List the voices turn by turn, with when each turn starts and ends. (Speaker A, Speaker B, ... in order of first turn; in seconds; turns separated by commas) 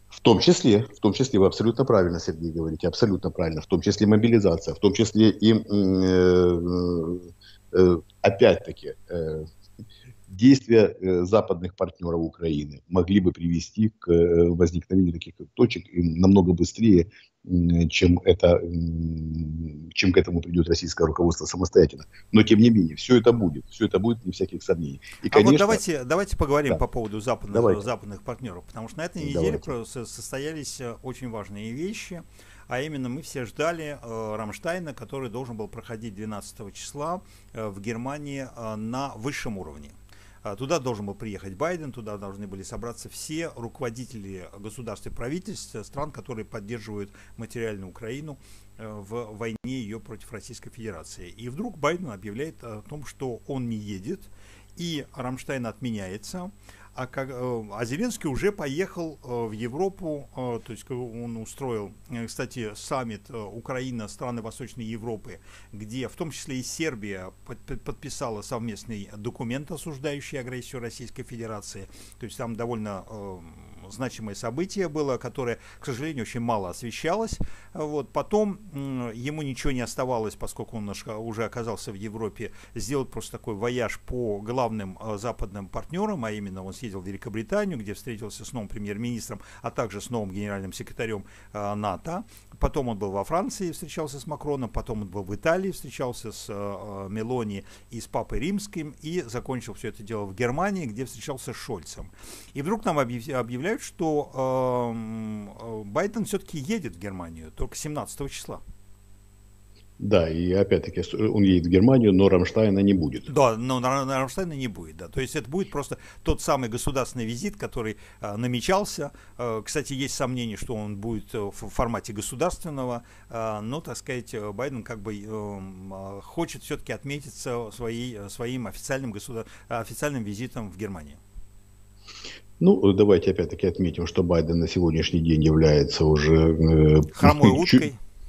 Speaker A: 0.2-9.5, Speaker A: 10.3-25.8, Speaker B: 25.3-108.6, Speaker A: 27.5-27.8, Speaker A: 29.2-29.7, Speaker A: 110.0-113.3, Speaker B: 113.3-131.2, Speaker A: 132.6-137.9, Speaker B: 137.1-138.0